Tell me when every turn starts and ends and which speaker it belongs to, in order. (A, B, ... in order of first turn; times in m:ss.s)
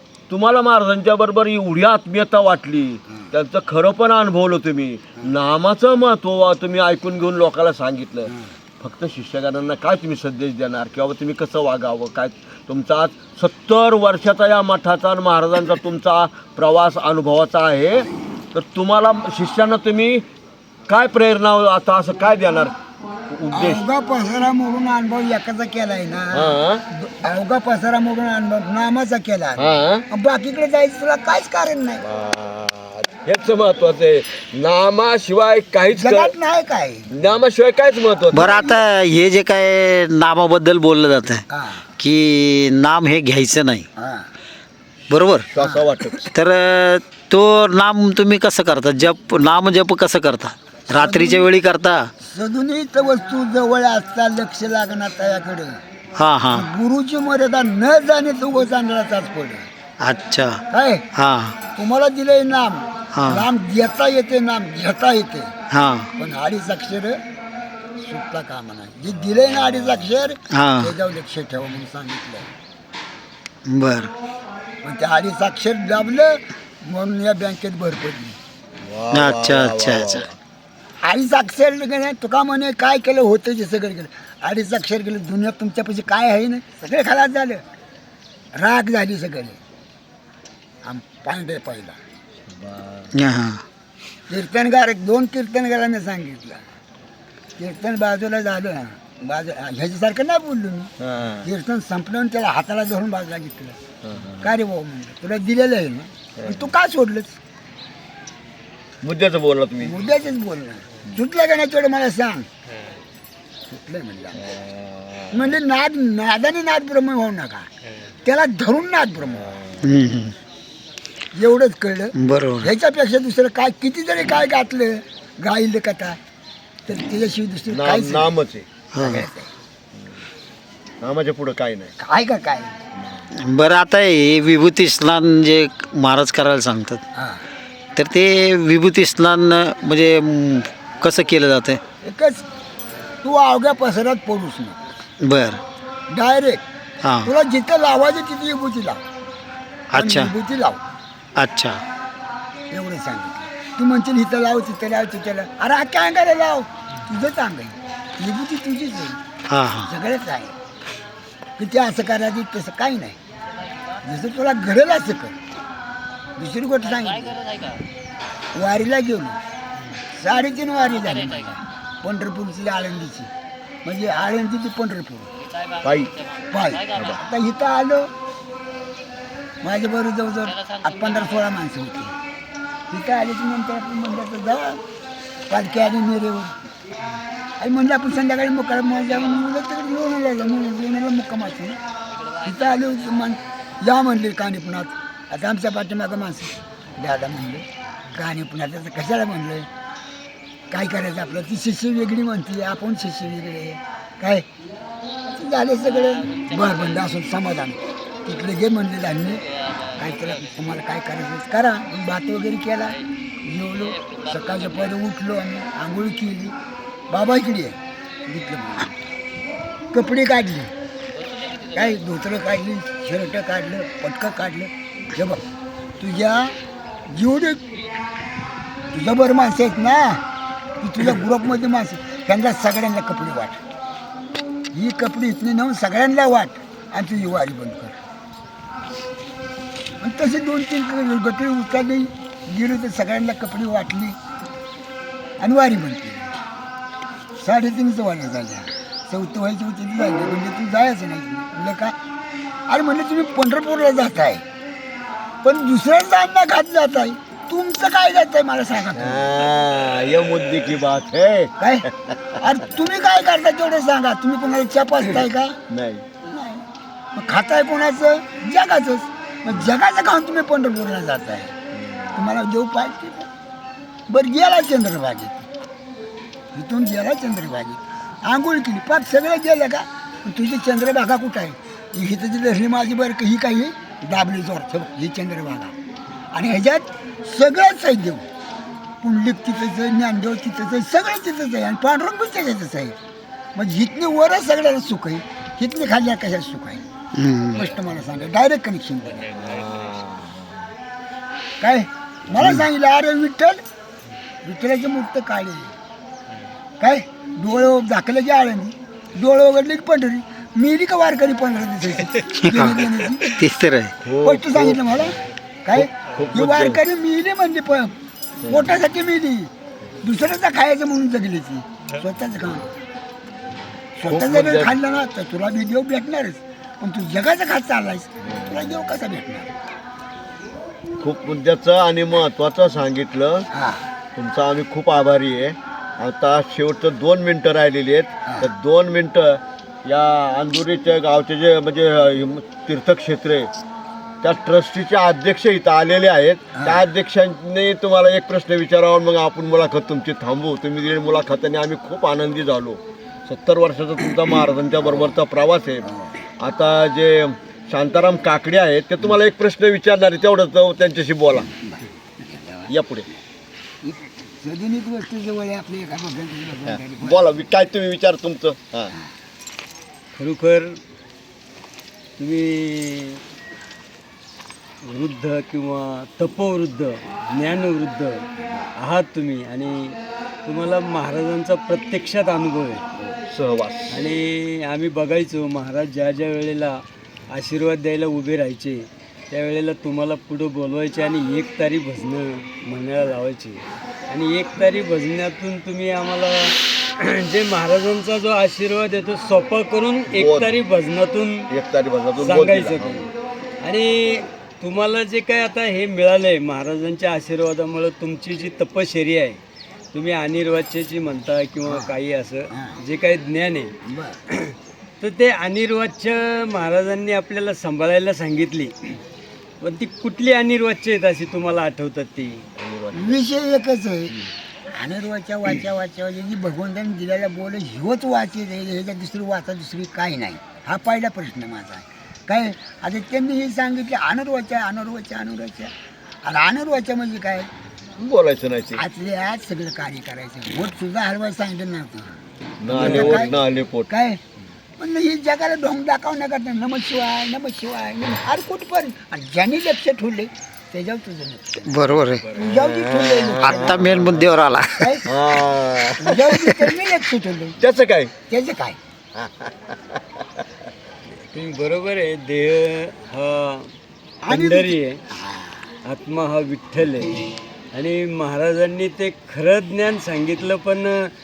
0:00.3-0:20.3 A
0:20.9-0:22.8 A
0:23.3-0:23.8 A
0:23.5-0:32.0 B
0:26.3-0:26.8 A
0:29.6-0:30.1 A
0:32.0-0:36.4 A
0:35.9-0:37.1 B
0:37.1-0:38.7 A
0:38.3-0:43.9 C
0:41.5-0:41.8 B
0:44.0-0:44.3 B
0:45.1-0:45.5 C
0:45.5-0:46.3 A
0:45.6-0:45.9 B
0:46.3-0:52.1 C
0:50.9-0:51.5 B
0:52.2-0:55.8 B
0:56.2-0:56.7 C
0:56.5-0:59.7 B
1:00.0-1:00.6 C
1:00.7-1:01.0 B
1:01.1-1:01.6 C
1:01.7-1:05.5 B
1:03.2-1:03.5 C
1:05.7-1:06.1 C
1:06.2-1:07.2 B
1:08.0-1:12.5 B
1:10.5-1:10.9 C
1:13.7-1:14.1 C
1:14.8-1:18.4 B
1:18.8-1:20.4 A
1:19.1-1:20.2 C
1:21.0-1:27.6 B
1:28.5-1:29.6 B
1:30.8-1:32.0 B
1:32.5-1:33.1 A
1:33.1-1:33.6 C
1:34.3-1:36.6 B
1:37.6-1:40.9 B
1:41.0-1:41.5 A
1:41.4-1:43.8 B
1:44.0-1:44.5 A
1:44.4-1:47.4 B
1:46.4-1:46.7 A
1:49.0-1:50.2 A
1:49.8-1:52.5 B
1:53.7-1:54.5 B
1:54.4-1:55.5 A
1:55.3-1:57.7 B
1:58.2-1:59.5 B
1:59.8-2:00.4 C
2:01.4-2:06.2 B
2:02.2-2:02.7 C
2:06.9-2:08.4 B
2:07.7-2:09.0 A
2:08.9-2:09.2 C
2:09.0-2:09.5 B
2:11.0-2:12.0 A
2:12.0-2:12.7 B
2:13.3-2:17.0 C
2:17.2-2:17.4 B
2:18.0-2:21.8 C
2:22.0-2:22.4 B
2:23.2-2:24.8 B
2:25.2-2:25.6 C
2:26.1-2:26.6 B
2:27.0-2:27.3 C
2:27.2-2:29.0 B
2:29.9-2:30.3 C
2:29.9-2:30.8 B
2:31.4-2:31.8 C
2:32.7-2:39.2 B
2:39.5-2:39.9 C
2:39.8-2:40.6 B
2:41.6-2:43.2 B
2:44.0-2:45.4 B
2:46.4-2:47.6 B
2:48.5-2:49.4 B
2:50.2-2:53.3 B
2:53.8-2:55.3 B
2:55.8-2:56.4 A
2:56.5-2:58.1 B
2:56.9-2:57.2 A
2:59.6-3:02.1 B
3:02.9-3:04.8 B
3:05.5-3:06.5 B
3:07.6-3:11.8 B
3:12.4-3:19.7 B
3:20.7-3:24.5 B
3:25.3-3:36.5 B
3:37.1-3:39.0 B
3:39.9-3:40.7 B
3:41.7-3:45.4 B
3:46.0-3:46.6 B
3:47.1-3:47.6 B
3:48.9-3:50.2 B
3:50.8-3:53.6 B
3:54.7-3:58.0 B
4:00.0-4:04.2 B
4:05.4-4:06.3 B
4:07.4-4:11.9 B
4:12.7-4:14.4 B
4:15.4-4:19.3 B
4:19.0-4:22.4 A
4:21.6-4:21.9 B
4:22.4-4:25.6 B
4:25.7-4:26.0 A
4:26.2-4:26.6 B
4:27.2-4:31.5 B
4:31.8-4:32.2 A
4:32.2-4:33.3 B
4:34.1-4:35.4 B
4:36.5-4:45.7 B
4:46.3-4:48.2 B
4:49.0-4:53.0 B
4:53.6-4:56.8 B
4:57.2-4:57.6 C
4:57.5-4:59.4 B
4:59.4-5:00.5 A
5:01.6-5:03.6 B
5:04.4-5:05.7 B
5:06.8-5:13.4 B
5:12.4-5:14.0 C
5:14.0-5:15.1 A
5:14.2-5:17.9 B
5:15.8-5:16.8 A
5:18.4-5:18.7 A
5:18.4-5:19.5 B
5:20.0-5:22.7 B
5:24.0-5:29.5 B
5:24.1-5:24.8 A
5:28.2-5:28.7 A
5:31.0-5:33.5 A
5:33.5-5:33.9 B
5:34.2-5:43.5 A
5:44.2-5:55.9 A
5:46.6-5:46.8 B
5:55.9-5:56.1 B
5:56.4-6:01.5 A
6:01.5-6:02.7 B
6:02.7-6:03.1 A
6:03.8-6:07.2 B
6:06.7-6:08.9 A
6:10.2-6:10.8 D
6:12.2-6:13.2 D
6:14.8-6:18.2 D
6:18.8-6:22.8 D
6:23.0-6:24.0 A
6:23.9-6:26.8 D
6:27.3-6:41.5 D
6:40.1-6:40.6 A
6:41.5-6:43.1 A
6:42.2-6:43.1 D
6:43.6-6:49.4 D
6:49.9-6:53.7 D
6:51.7-6:51.9 B
6:52.5-6:52.8 B
6:53.8-6:54.2 B
6:54.3-6:58.9 D
6:59.6-7:02.4 D
7:02.6-7:03.2 A
7:02.9-7:04.2 B
7:04.7-7:15.7 B
7:16.2-7:17.5 B
7:18.0-7:18.8 A
7:18.8-7:22.1 B
7:22.6-7:23.9 A
7:22.7-7:23.3 B
7:22.8-7:23.2 D
7:23.9-7:24.2 B
7:24.8-7:33.9 B
7:31.7-7:32.2 C
7:32.5-7:34.4 A
7:33.4-7:35.0 C
7:34.8-7:35.0 B
7:35.1-7:36.6 A
7:36.0-7:37.6 B
7:37.6-7:38.1 A
7:38.3-7:38.8 B
7:39.2-7:39.5 A
7:41.2-7:43.7 D
7:44.2-7:45.7 B
7:44.3-7:45.0 D
7:45.8-7:51.1 D